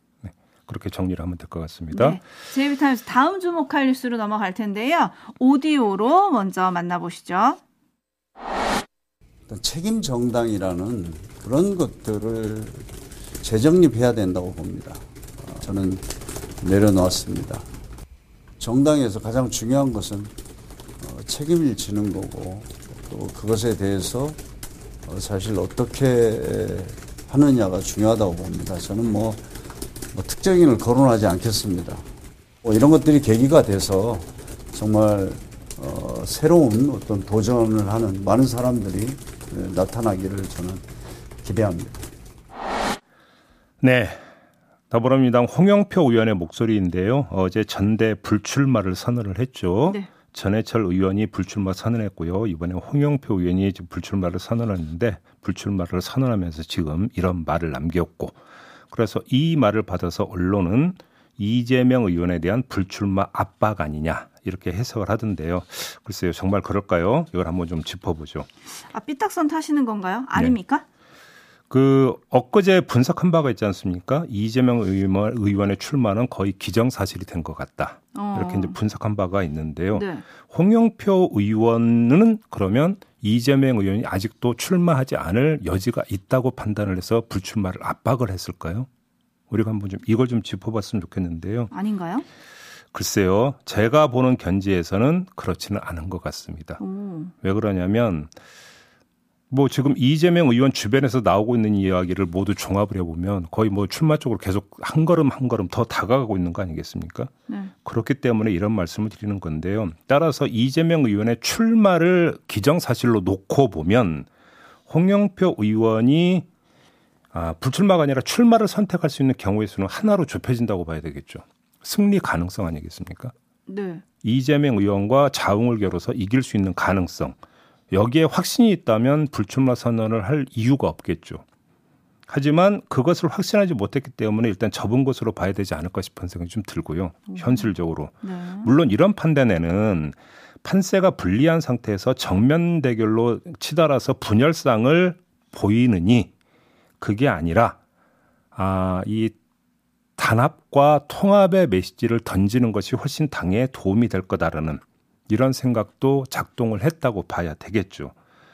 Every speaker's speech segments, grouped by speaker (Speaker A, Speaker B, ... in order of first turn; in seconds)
Speaker A: 0.2-2.2, 43.8-44.2, 44.9-58.4, 58.9-68.5, 71.7-88.9, 89.5-91.7, 92.9-96.8, 97.4-98.3, 99.5-107.3, 107.8-114.3, 114.9-116.5, 117.3-123.3, 124.2-127.4, 127.9-131.4, 132.3-146.3, 147.0-147.8, 148.6-149.3, 150.2-158.1
Speaker B: 1.9-7.6, 68.8-70.8, 78.1-78.8, 79.9-80.2, 91.7-92.2, 96.8-97.3, 123.7-124.0, 137.3-137.7, 138.2-138.7
Speaker C: 9.5-12.9, 13.4-16.1, 16.6-17.6, 18.6-20.3, 21.0-24.4, 25.1-29.4, 30.1-32.0, 32.6-40.8, 41.4-42.0